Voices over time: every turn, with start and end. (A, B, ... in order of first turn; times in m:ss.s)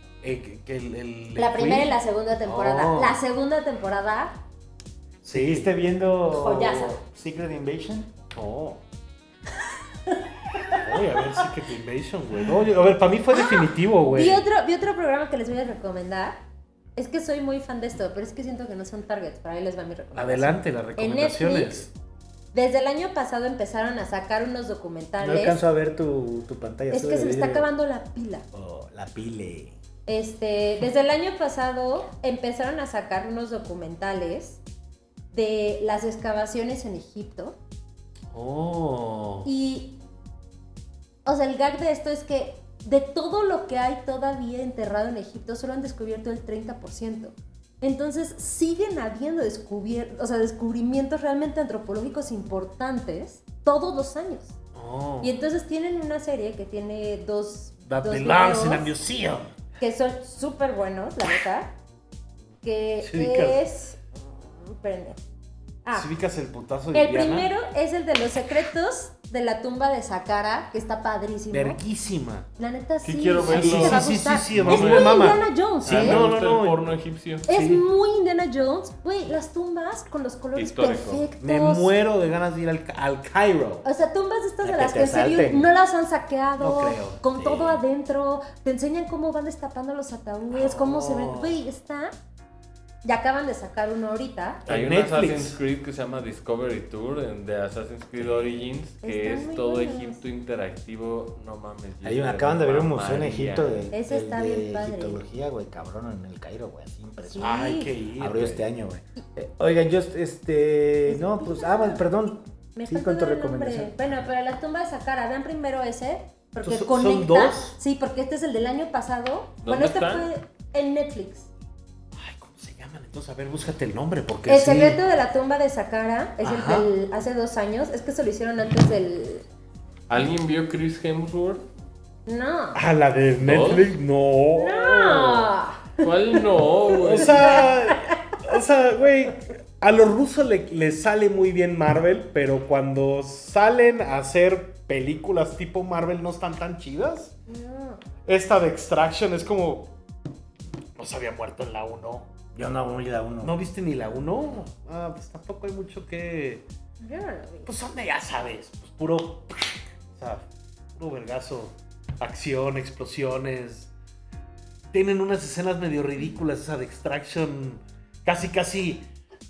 0:00.2-0:03.2 A
0:01.4-0:04.4 B
0:05.2-0:05.7 A
0:05.3-0:08.1 C
0:06.2-0:07.0 B
0:08.3-0:08.8 A
0:10.1-0:10.8 B
0:10.7-0:14.4 A
0:13.3-0:16.4 B
0:17.0-0:21.8 B
0:20.1-0:21.9 A
0:22.5-0:25.6 B
0:25.2-0:27.7 C
0:26.9-0:28.5 B
0:28.5-0:29.8 C
0:30.1-0:34.6 B
0:35.3-0:37.6 B
0:38.3-0:39.5 A
0:39.4-0:40.0 B
0:41.2-0:54.6 B
0:54.8-0:55.3 A
0:55.2-0:58.9 B
0:57.9-0:59.5 A
0:59.8-1:01.8 B
1:02.6-1:05.2 B
1:03.0-1:03.6 A
1:05.9-1:07.5 A
1:06.9-1:11.8 B
1:11.5-1:12.5 A
1:12.6-1:16.2 B
1:13.0-1:17.5 D
1:13.5-1:16.8 A
1:17.5-1:21.9 B
1:17.5-1:17.9 A
1:20.6-1:21.3 D
1:21.4-1:23.8 A
1:23.8-1:32.1 B
1:24.6-1:25.7 C
1:26.6-1:27.2 A
1:27.3-1:27.8 D
1:30.5-1:31.6 A
1:33.0-1:34.6 B
1:34.7-1:35.6 A
1:34.7-1:43.9 D
1:38.2-1:38.6 C
1:39.0-1:40.2 B
1:42.0-1:53.9 C
1:43.9-1:45.2 B
1:47.2-1:47.9 B
1:47.4-1:48.6 A
1:51.1-1:52.0 B
1:52.8-2:01.5 B
1:56.6-1:57.8 A
1:59.6-2:00.3 D
2:02.2-2:05.0 A
2:04.5-2:09.4 B
2:06.4-2:06.9 A
2:10.1-2:11.6 D
2:12.3-2:12.8 B
2:12.7-2:15.5 A
2:13.4-2:13.9 D
2:14.6-2:18.4 B
2:16.0-2:17.7 D
2:17.0-2:27.3 A
2:27.5-2:28.0 B
2:28.2-2:29.9 A
2:31.0-2:32.2 A
2:32.6-2:33.6 C
2:33.4-2:36.6 A
2:37.0-2:37.7 B
2:37.7-2:43.9 A
2:44.9-2:49.1 A